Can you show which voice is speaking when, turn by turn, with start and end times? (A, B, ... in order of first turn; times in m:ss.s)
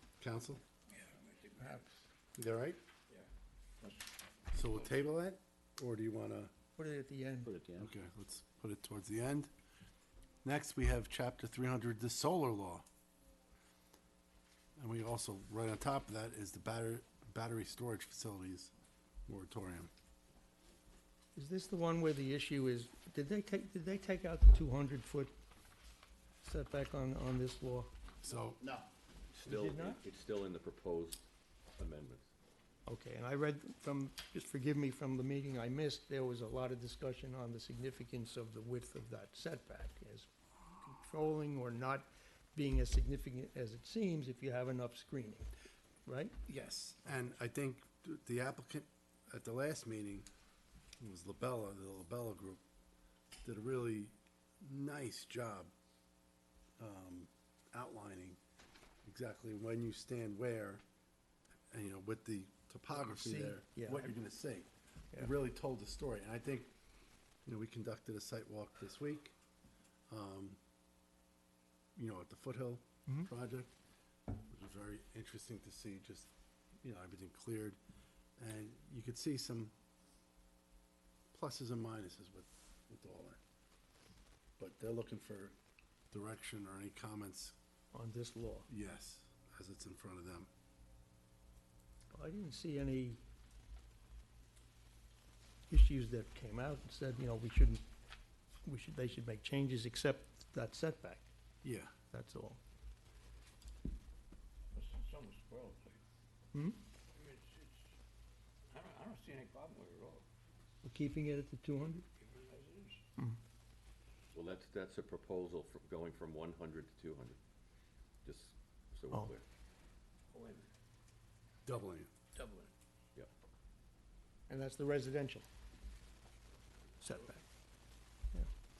0:00.2-0:00.6 A
0:00.9-0:02.0 B
0:02.4-0:02.8 A
0:03.1-0:04.1 B
0:04.5-0:06.5 A
0:06.8-0:07.5 C
0:07.8-0:09.5 A
0:10.4-0:12.8 A
0:14.8-0:18.7 A
0:19.3-0:19.9 A
0:21.4-0:25.3 C
0:26.4-0:27.9 C
0:28.2-0:28.6 A
0:29.3-0:32.3 D
0:29.4-0:30.0 C
0:32.8-0:45.5 C
0:46.0-0:46.3 C
0:46.5-0:50.3 A
0:51.0-0:52.6 A
0:53.4-0:55.7 A
0:56.8-0:58.4 A
0:59.0-1:00.8 A
1:01.7-1:06.7 A
1:03.0-1:04.1 C
1:07.4-1:09.3 A
1:10.1-1:10.6 A
1:12.0-1:13.7 A
1:14.5-1:16.3 A
1:16.8-1:17.8 A
1:18.4-1:19.7 A
1:21.3-1:23.4 A
1:24.6-1:25.6 A
1:26.1-1:27.5 A
1:27.9-1:28.7 C
1:28.7-1:30.5 A
1:32.1-1:33.2 C
1:35.7-1:37.8 C
1:38.6-1:41.3 C
1:41.6-1:41.9 A
1:42.1-1:42.6 C
1:44.7-1:46.0 B
1:46.5-1:46.8 C
1:47.1-1:48.0 B
1:48.7-1:50.2 B
1:50.8-1:52.0 C
1:52.2-1:53.0 B
1:54.3-1:57.4 D
1:58.2-1:59.4 D
2:00.3-2:00.7 B
2:01.6-2:02.1 A
2:02.3-2:02.7 B
2:04.5-2:05.4 C
2:07.0-2:07.4 C